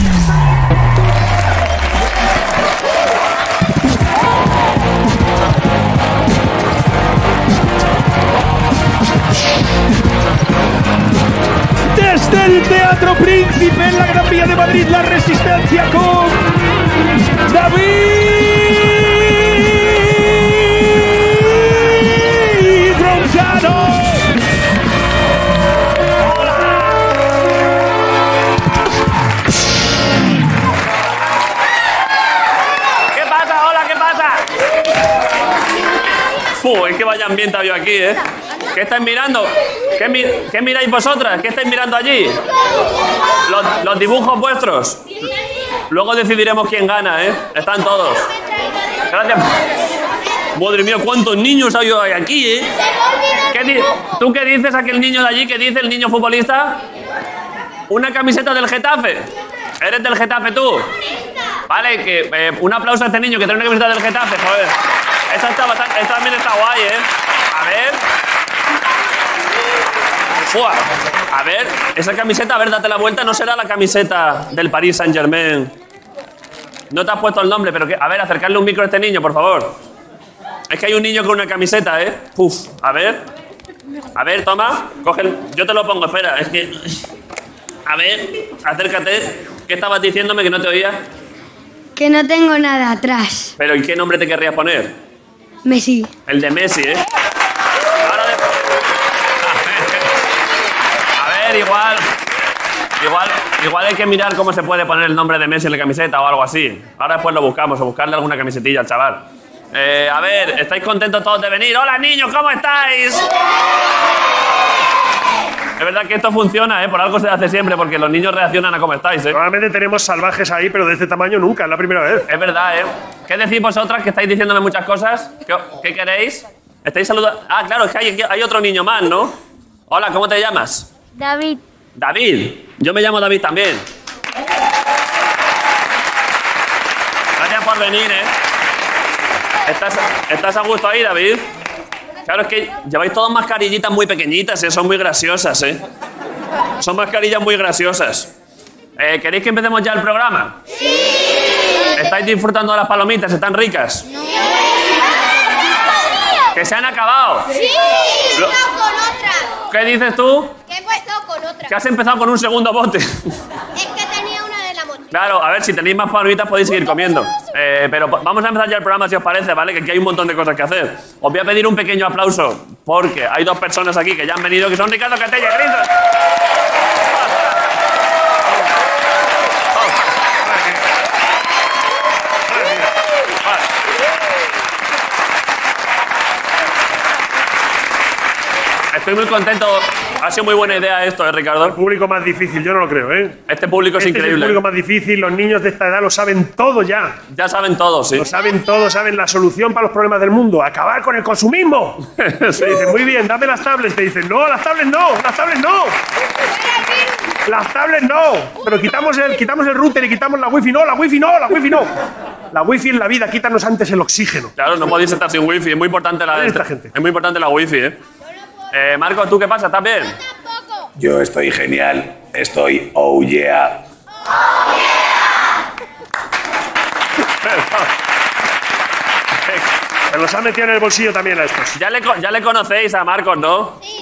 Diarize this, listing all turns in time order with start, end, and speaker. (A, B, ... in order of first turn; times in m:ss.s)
0:11.9-0:16.6 A
0:17.4-0:24.3 A
0:26.4-0:26.9 B
0:33.1-0:34.5 B
0:36.6-0:42.4 B
0:43.5-0:45.0 B
0:45.9-0:48.3 B
0:49.1-0:49.6 B
0:50.6-0:52.7 B
0:53.5-0:56.8 B
0:57.9-0:59.3 B
0:59.8-1:00.9 B
1:01.7-1:04.8 B
1:05.3-1:08.0 B
1:10.5-1:15.7 B
1:16.9-1:19.8 B
1:20.7-1:23.2 B
1:24.2-1:27.0 B
1:27.9-1:31.0 B
1:32.0-1:33.5 C
1:33.6-1:35.0 B
1:35.6-1:36.1 C
1:36.3-1:37.0 B
1:38.0-1:38.5 B
1:39.4-1:40.1 B
1:41.2-1:42.2 B
1:43.0-1:53.2 B
1:55.8-1:59.4 B
1:59.3-2:02.2 D
2:02.3-2:09.4 B
2:09.9-2:10.9 B
2:11.2-2:11.6 C
2:12.0-2:13.8 B
2:17.4-2:18.3 B
2:19.7-2:21.5 B
2:22.2-2:25.8 B
2:26.8-2:28.3 B
2:29.0-2:30.6 B
2:32.0-2:34.1 B
2:34.2-2:35.0 E
2:36.6-2:37.5 B
2:37.6-2:39.6 E
2:39.7-2:40.6 B
2:40.7-2:41.7 E
2:41.7-2:43.3 B
2:43.8-2:45.1 E
2:45.1-2:55.9 B
2:57.1-2:57.6 B
2:59.8-3:00.0 B
3:00.5-3:00.8 D
3:02.5-3:02.9 D
3:08.9-3:11.8 B
3:11.6-3:13.4 D
3:13.5-3:14.6 B
3:14.0-3:17.2 D
3:17.3-3:18.3 B
3:18.2-3:22.0 D
3:22.2-3:22.9 B
3:22.6-3:26.0 D
3:27.5-3:31.9 D
3:32.5-3:34.5 D
3:34.6-3:38.0 B
3:36.3-3:36.9 D
3:38.7-3:40.2 B
3:41.0-3:43.8 F
3:47.4-3:47.9 B
3:50.1-3:51.7 D
3:51.8-3:53.8 B